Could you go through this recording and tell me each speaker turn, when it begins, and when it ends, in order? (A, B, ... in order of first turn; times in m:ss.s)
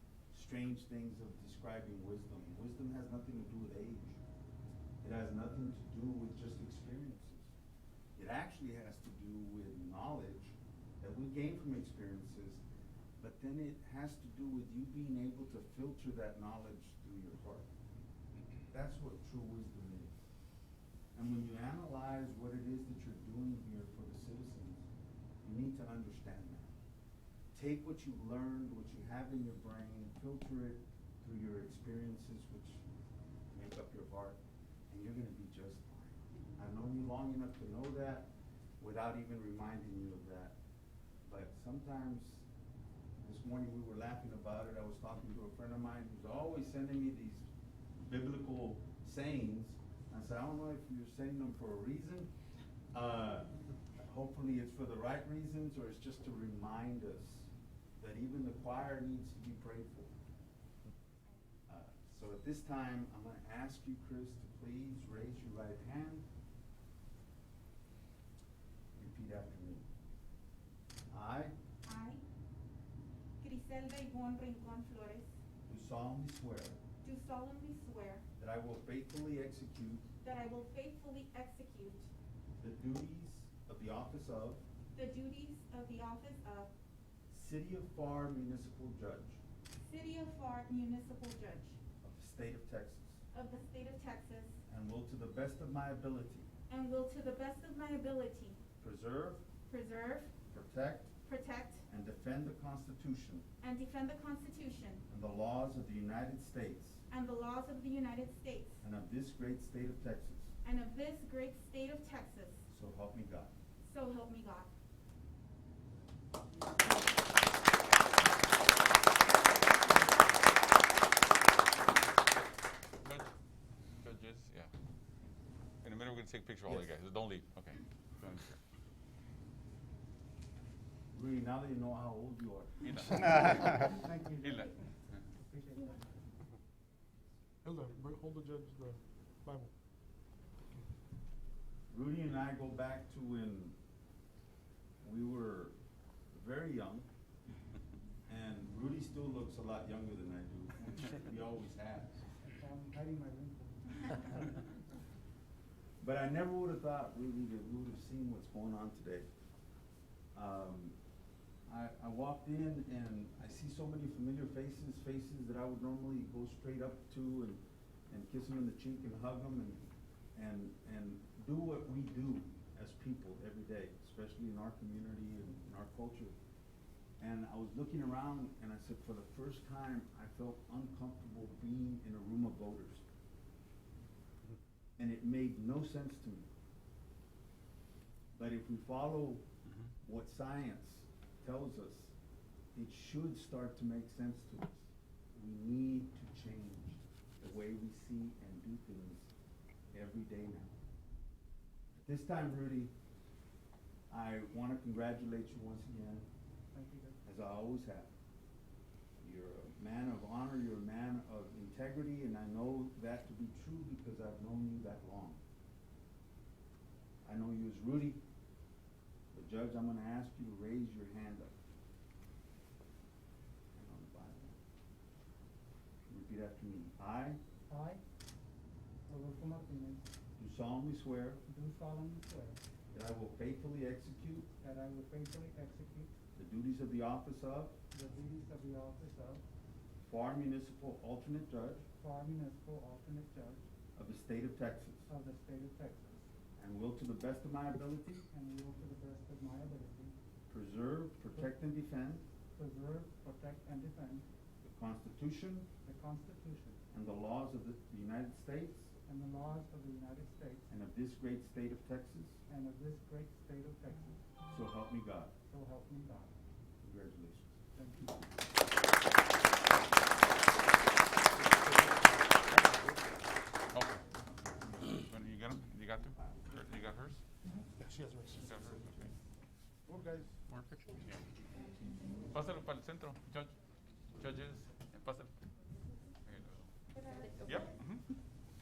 0:00.3-0:04.2 A
0:05.0-0:07.5 A
0:08.2-0:12.6 A
0:13.2-0:17.7 A
0:18.7-0:20.2 A
0:21.1-0:24.9 A
0:25.4-0:26.7 A
0:27.5-0:32.8 A
0:33.5-0:34.4 A
0:34.9-0:38.3 A
0:38.8-0:40.6 A
0:41.2-0:42.5 A
0:43.2-0:47.5 A
0:48.0-0:52.3 A
0:52.9-1:00.1 A
1:01.7-1:06.3 A
1:09.0-1:09.9 A
1:11.1-1:11.5 A
1:11.8-1:12.2 B
1:13.4-1:15.3 B
1:15.7-1:16.8 A
1:17.0-1:18.2 B
1:18.4-1:20.1 A
1:20.2-1:22.1 B
1:22.6-1:24.6 A
1:25.0-1:26.7 B
1:27.3-1:29.4 A
1:29.8-1:31.8 B
1:32.0-1:33.2 A
1:33.3-1:34.6 B
1:34.7-1:36.5 A
1:36.7-1:38.6 B
1:38.8-1:39.4 A
1:39.7-1:40.3 B
1:40.5-1:41.1 A
1:41.3-1:41.8 B
1:41.9-1:43.5 A
1:43.6-1:45.0 B
1:45.1-1:47.0 A
1:47.1-1:48.8 B
1:48.8-1:50.5 A
1:50.6-1:52.6 B
1:52.7-1:53.5 A
1:53.8-1:54.7 B
2:03.0-2:03.3 C
2:04.0-2:04.7 C
2:05.8-2:08.6 C
2:11.1-2:13.7 A
2:12.8-2:14.7 C
2:13.8-2:16.1 D
2:17.6-2:19.7 E
2:21.9-2:23.8 A
2:25.0-2:25.8 A
2:26.3-2:27.1 A
2:28.3-2:32.2 A
2:32.5-2:34.7 D
2:36.0-2:39.3 A
2:40.3-2:41.0 A
2:41.7-2:49.8 A
2:50.4-2:56.4 A
2:57.2-3:03.0 A
3:05.0-3:06.5 A
3:08.4-3:09.4 A
3:10.0-3:12.1 A
3:12.8-3:19.3 A
3:19.9-3:20.8 A
3:22.0-3:22.9 A
3:24.1-3:26.3 A
3:26.7-3:27.2 D
3:27.2-3:28.1 A
3:29.2-3:35.4 A
3:37.2-3:38.2 A
3:39.3-3:41.5 A
3:43.7-3:44.6 A
3:46.1-3:47.4 A
3:47.7-3:48.0 D
3:49.1-3:50.1 D
3:50.4-3:51.4 A
3:51.5-3:52.6 D
3:52.9-3:54.5 A
3:54.6-3:56.1 D
3:56.4-3:57.8 A
3:57.9-3:59.4 D
4:00.0-4:01.9 A
4:02.0-4:03.6 D
4:04.0-4:05.1 A
4:05.1-4:06.3 D
4:06.6-4:08.3 A
4:08.3-4:10.1 D
4:10.5-4:12.3 A
4:12.6-4:14.2 D
4:14.6-4:15.7 A
4:15.8-4:16.8 D
4:16.9-4:18.9 A
4:19.1-4:20.7 D
4:20.7-4:22.4 A
4:22.5-4:24.2 D
4:24.5-4:25.3 A
4:25.5-4:26.3 D
4:26.8-4:27.6 A
4:27.8-4:28.2 D
4:31.4-4:33.0 E
4:33.7-4:34.0 C
4:34.8-4:37.2 C
4:37.8-4:38.5 E
4:38.4-4:39.1 C
4:40.4-4:41.2 C
4:42.3-4:43.5 C
4:44.2-4:45.3 C
4:46.2-4:46.7 C
4:47.0-4:47.5 B
4:47.4-4:48.0 C